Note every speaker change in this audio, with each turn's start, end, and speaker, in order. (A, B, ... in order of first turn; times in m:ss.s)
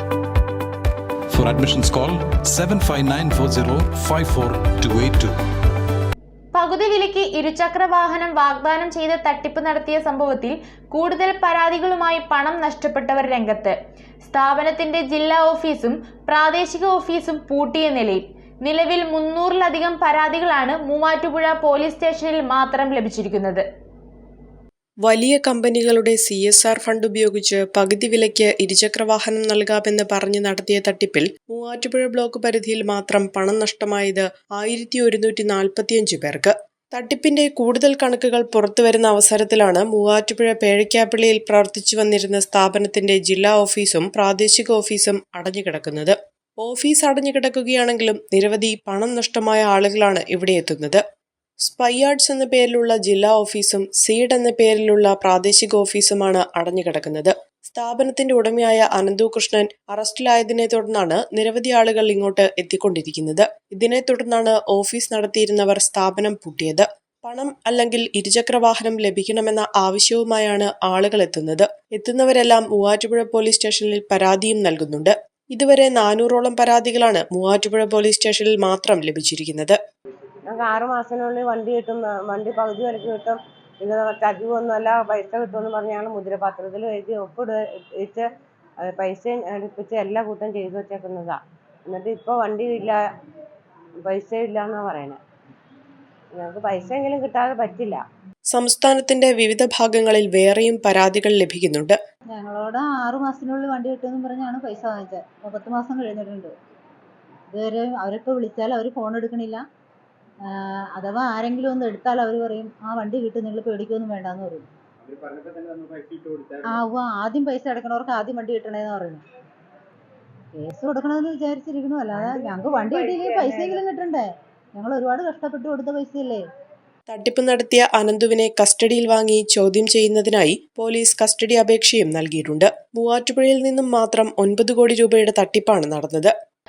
0:01.3-0:05.4 A
0:06.5-0:23.6 B
0:25.0-0:51.0 C
0:51.6-1:19.8 C
1:20.4-1:28.2 D
1:28.8-1:33.0 D
1:34.0-1:35.2 D
1:36.3-1:38.0 D
1:38.5-1:42.0 C
1:42.3-1:46.5 E
1:47.5-1:49.6 E
1:50.5-1:54.6 E
1:56.7-1:59.2 E
2:00.5-2:06.4 E
2:02.1-2:03.8 D
2:07.1-2:16.3 C